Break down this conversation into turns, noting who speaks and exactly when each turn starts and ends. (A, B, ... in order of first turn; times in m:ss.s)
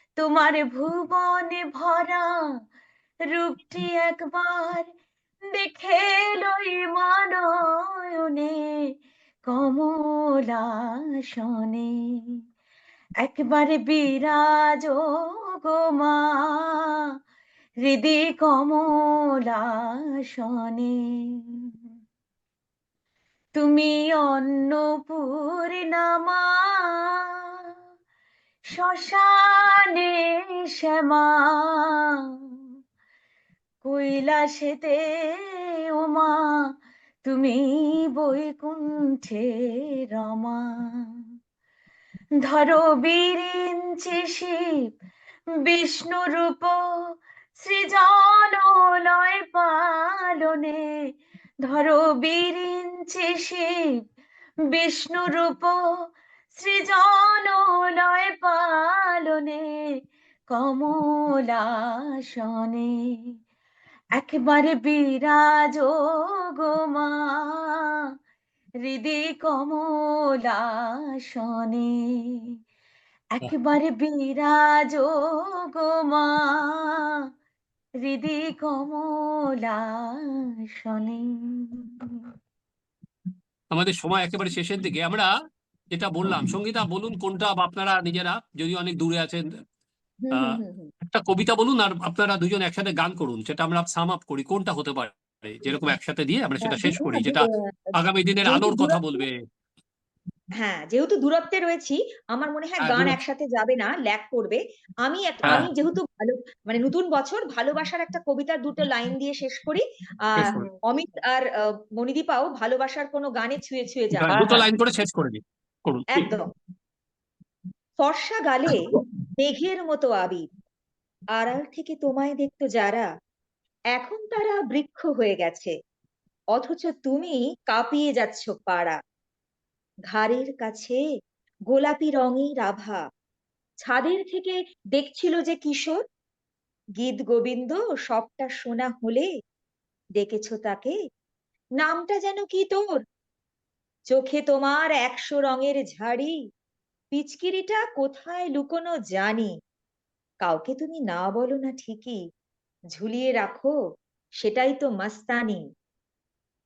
0:00.2-0:02.4 A
0:03.3-0:04.9 A
0:05.5-0:08.6 A
0:09.5-0:10.8 A
0:11.3-0:11.9 A
0:13.2-0:15.0 A
0:15.6-0:16.9 A
0:17.8-0:21.4 A
0:23.5-0:27.2 A
0:28.8-0:30.2 A
0:30.8-0:32.0 A
0:33.8-0:35.0 A
0:36.0-0:36.4 A
0:37.2-0:37.6 A
0:38.1-0:39.5 A
0:40.1-0:41.0 A
0:42.4-0:44.6 A
0:45.6-0:46.8 A
0:47.6-0:50.8 A
0:51.7-0:53.7 A
0:54.7-0:55.8 A
0:56.5-0:59.6 A
1:00.5-1:01.7 A
1:02.2-1:02.9 A
1:04.2-1:05.9 A
1:06.6-1:07.9 A
1:08.8-1:12.4 A
1:13.3-1:15.1 A
1:15.7-1:17.0 A
1:18.0-1:21.9 A
1:23.7-1:25.3 B
1:25.9-1:29.4 B
1:30.2-1:30.9 C
1:30.3-1:39.4 B
1:36.6-1:37.5 C
1:38.4-1:39.2 C
1:40.6-1:54.6 C
1:42.8-1:43.2 B
1:50.4-1:50.7 B
1:54.3-1:56.3 B
1:56.1-1:56.5 C
1:58.0-2:00.5 C
2:01.3-2:03.1 C
2:03.9-2:05.7 C
2:06.5-2:09.0 C
2:10.1-2:11.0 C
2:11.7-2:13.0 C
2:13.8-2:16.0 C
2:17.0-2:19.3 C
2:20.2-2:20.9 C
2:21.8-2:22.8 C
2:24.1-2:26.4 C
2:27.1-2:29.5 C
2:30.4-2:32.2 C
2:32.9-2:33.7 C
2:34.4-2:35.6 C